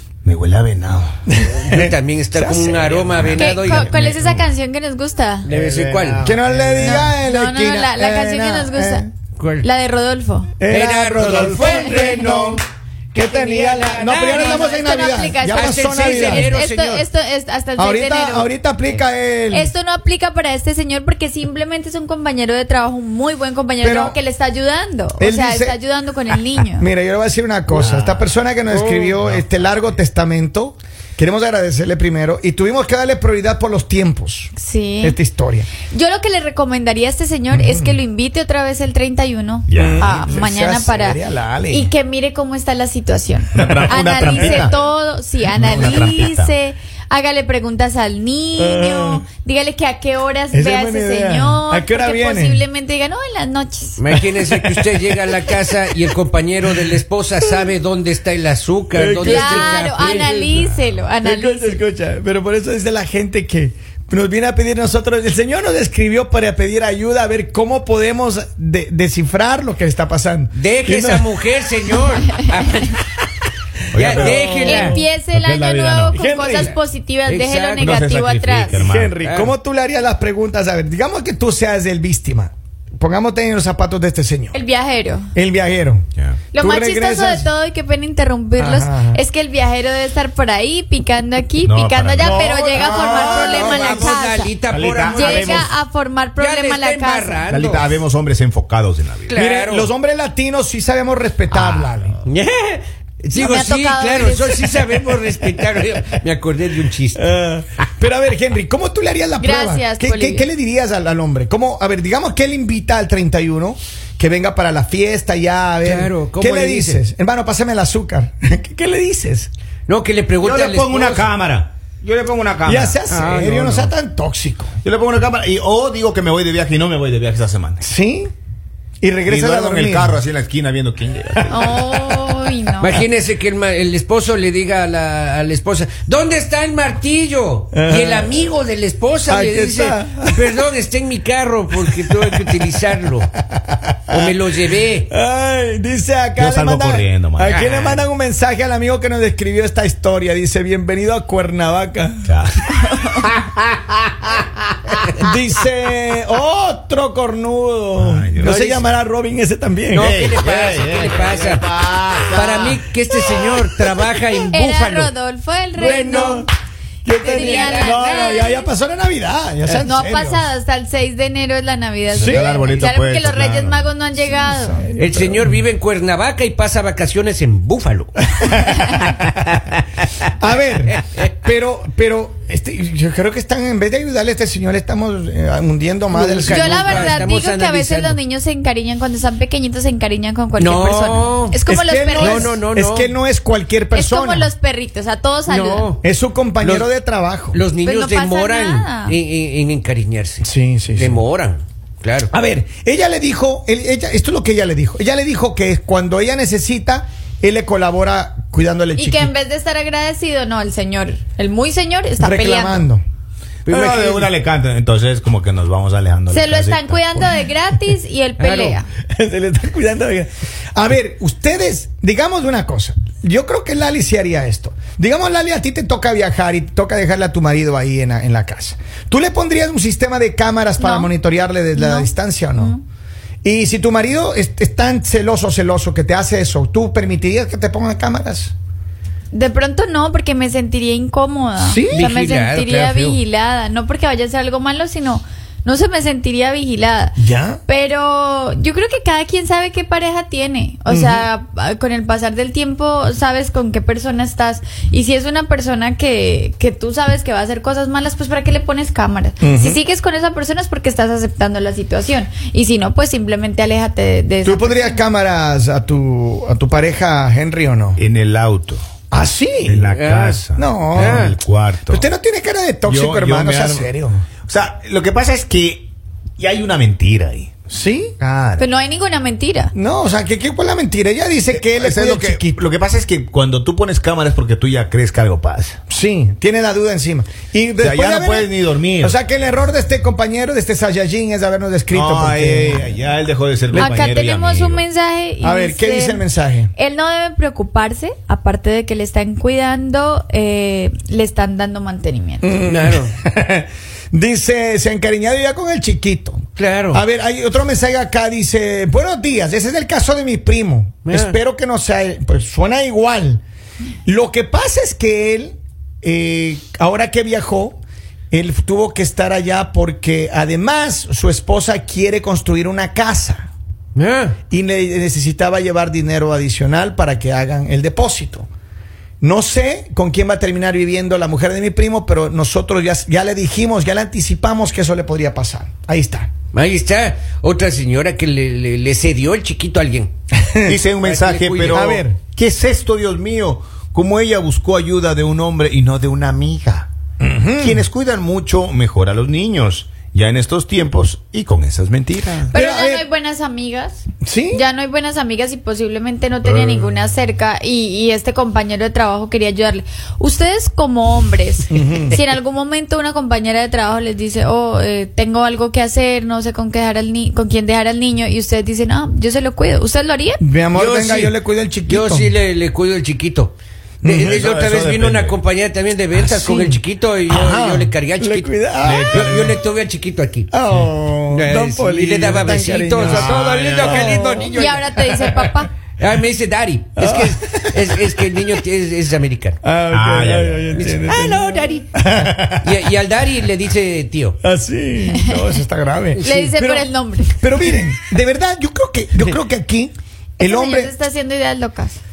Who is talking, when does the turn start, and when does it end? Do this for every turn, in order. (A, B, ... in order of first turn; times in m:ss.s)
0:00.2-0:01.2 A
0:01.3-0:03.4 B
0:01.4-0:04.2 C
0:02.9-0:04.4 A
0:03.3-0:05.5 D
0:05.4-0:06.2 C
0:05.4-0:07.1 A
0:06.2-0:09.1 B
0:06.8-0:09.0 D
0:09.4-0:09.7 C
0:09.6-0:10.5 D
0:10.6-0:12.6 B
0:10.7-0:12.6 C
0:11.6-0:12.5 D
0:13.1-0:14.7 C
0:13.1-0:16.5 B
0:13.5-0:26.9 D
0:15.5-0:17.0 C
0:17.8-0:19.7 B
0:23.8-0:24.2 B
0:25.2-0:25.8 B
0:26.6-0:35.7 B
0:27.7-0:28.2 A
0:28.7-0:29.2 C
0:34.5-0:35.2 D
0:35.8-0:41.2 D
0:37.5-0:38.0 B
0:39.7-0:40.0 A
0:39.7-0:41.9 B
0:41.7-0:54.0 D
0:43.5-0:44.7 A
0:44.4-0:44.7 B
0:45.5-0:46.5 A
0:48.6-0:49.2 B
0:50.5-0:52.6 B
0:54.0-1:00.4 C
0:54.4-0:55.6 B
0:58.9-1:11.3 B
0:59.2-1:01.8 D
1:10.5-1:13.0 C
1:13.9-1:16.1 A
1:13.9-1:15.0 C
1:14.1-1:15.0 B
1:14.5-1:18.8 D
1:16.1-1:16.8 B
1:17.2-1:18.0 C
1:17.8-1:19.2 A
1:18.7-1:24.6 B
1:19.2-1:19.5 C
1:24.5-1:25.3 D
1:25.3-1:27.5 B
1:26.5-1:34.5 D
1:28.6-1:29.2 B
1:31.6-1:34.1 A
1:32.2-1:34.1 B
1:32.7-1:35.7 C
1:34.7-1:35.7 A
1:35.1-1:37.4 D
1:36.4-1:38.0 C
1:37.5-1:39.3 A
1:39.2-1:39.9 C
1:39.3-1:42.2 B
1:41.5-1:47.3 C
1:43.3-1:44.7 D
1:47.1-1:59.5 B
1:49.4-1:50.5 D
1:55.8-1:57.0 C
1:59.9-2:01.3 C
2:00.4-2:03.0 A
2:02.6-2:04.7 B
2:03.1-2:03.9 C
2:04.8-2:07.8 A
2:07.8-2:08.3 B
2:09.0-2:10.2 B
2:09.2-2:11.9 A
2:11.5-2:13.0 D
2:12.8-2:23.3 C
2:17.7-2:18.5 B
2:19.3-2:20.4 B
2:21.8-2:22.7 B
2:23.5-2:24.3 B
2:24.1-2:25.1 C
2:25.1-2:32.2 B
2:26.4-2:27.6 A
2:27.4-2:28.1 C
2:32.2-2:32.7 A
2:33.2-2:33.9 C
2:35.0-2:40.3 B
2:38.0-2:38.6 A
2:38.4-2:38.9 C
2:39.9-2:45.1 C
2:40.0-2:42.8 A
2:44.5-2:46.4 D
2:45.8-2:46.4 C
2:45.8-2:46.5 B
2:47.0-2:50.5 B
2:47.2-2:48.7 D
2:47.2-2:48.4 C
2:49.8-2:54.8 D
2:52.1-2:53.8 A
2:52.2-2:52.5 B
2:54.2-2:55.5 B
2:54.9-2:58.2 C
2:58.4-2:58.9 B
3:00.4-3:07.3 B
3:00.9-3:01.3 C
3:06.1-3:08.2 C
3:06.5-3:12.5 D
3:10.6-3:11.6 C
3:11.7-3:14.5 B
3:12.2-3:13.1 C
3:13.9-3:15.9 D
3:15.5-3:16.0 C
3:16.0-3:17.6 B
3:16.6-3:16.9 C
3:17.5-3:22.3 C
3:17.8-3:19.2 D
3:20.4-3:21.2 B
3:22.3-3:29.3 B
3:29.0-3:32.8 D
3:32.2-3:33.0 B
3:33.6-3:34.3 C
3:33.7-3:37.3 A
3:36.3-3:38.8 D
3:38.4-3:38.8 C
3:39.1-3:52.7 B
3:50.8-3:51.1 D
3:51.7-3:52.8 D
3:53.4-3:58.5 B
3:59.3-4:25.0 D
4:01.6-4:02.0 B
4:01.9-4:03.2 C
4:07.2-4:07.6 B
4:10.9-4:11.2 B
4:19.4-4:19.8 B
4:24.4-4:28.0 B
4:28.0-4:28.8 A
4:29.1-4:29.9 B
4:29.6-4:32.0 A
4:29.9-4:30.4 C
4:30.5-4:31.2 B
4:30.9-4:31.4 C
4:31.8-4:34.2 B
4:32.8-4:33.9 A
4:34.4-4:37.5 A
4:37.7-4:38.2 B
4:38.2-4:38.6 A
4:38.6-4:39.7 D
4:39.7-4:42.6 B
4:41.5-4:45.8 A
4:45.9-4:53.1 B
4:47.8-4:49.2 A
4:51.9-4:54.8 A
4:53.7-4:56.2 D
4:55.4-4:56.7 B
4:56.8-5:02.6 D
5:02.4-5:13.4 B
5:02.6-5:03.1 C
5:06.6-5:07.0 C
5:11.0-5:11.4 C
5:14.0-5:17.8 B
5:18.3-5:23.5 B
5:23.9-5:24.4 C
5:24.5-5:28.5 B
5:29.2-5:36.3 B
5:36.5-5:40.1 C
5:40.4-5:40.8 B
5:40.6-5:46.9 A
5:40.9-5:42.0 C
5:41.7-5:42.2 B
5:47.2-5:47.8 B
5:47.6-5:52.5 A
5:52.5-6:10.4 D
5:52.5-5:53.0 B
5:54.2-5:54.6 B
6:01.7-6:02.2 B
6:10.4-6:12.3 B
6:10.7-6:11.3 C
6:11.8-6:20.5 C
6:14.0-6:14.4 B
6:14.2-6:15.4 A
6:16.1-6:19.1 B
6:18.8-6:19.6 A
6:20.5-6:25.4 B
6:21.3-6:25.2 C
6:23.0-6:24.3 A
6:24.4-6:25.7 D
6:26.0-6:29.6 C
6:27.0-6:28.0 B
6:29.6-6:32.4 B
6:29.9-6:30.9 A
6:30.7-6:31.9 C
6:32.2-6:32.6 A
6:32.6-6:34.4 C
6:34.4-6:40.9 B
6:36.2-6:36.5 C
6:36.2-6:37.4 D
6:40.4-6:42.0 D